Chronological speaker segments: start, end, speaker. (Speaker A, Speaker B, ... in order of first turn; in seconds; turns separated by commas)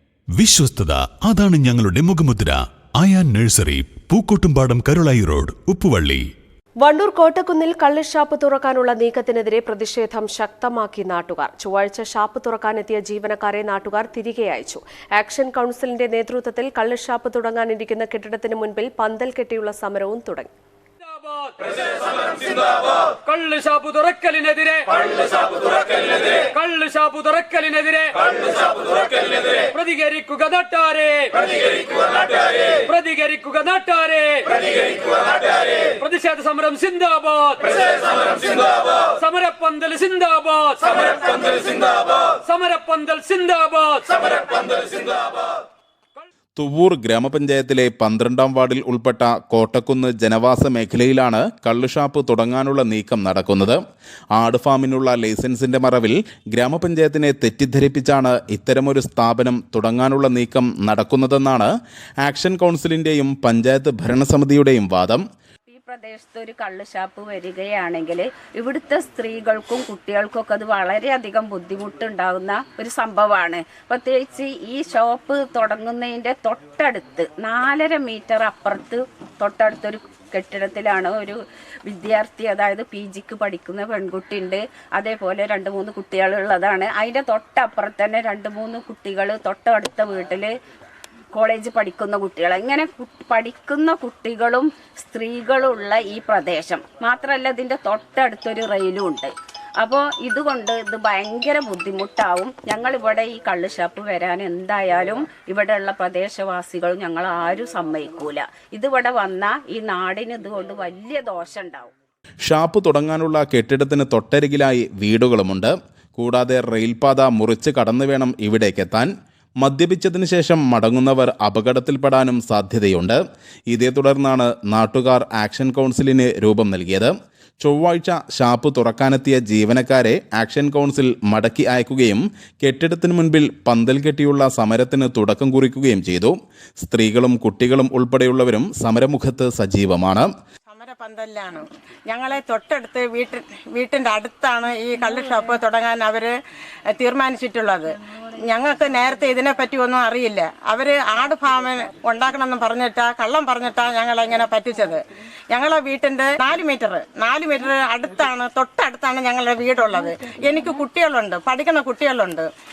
Speaker A: 0.4-6.3, Speaker B: 6.8-20.5, Speaker C: 21.2-45.4, Speaker D: 46.6-53.8, Speaker D: 54.3-65.2, Speaker E: 65.7-90.5, Speaker E: 91.3-111.9, Speaker D: 112.4-119.1, Speaker D: 119.6-140.3, Speaker F: 140.7-146.3, Speaker F: 146.9-162.5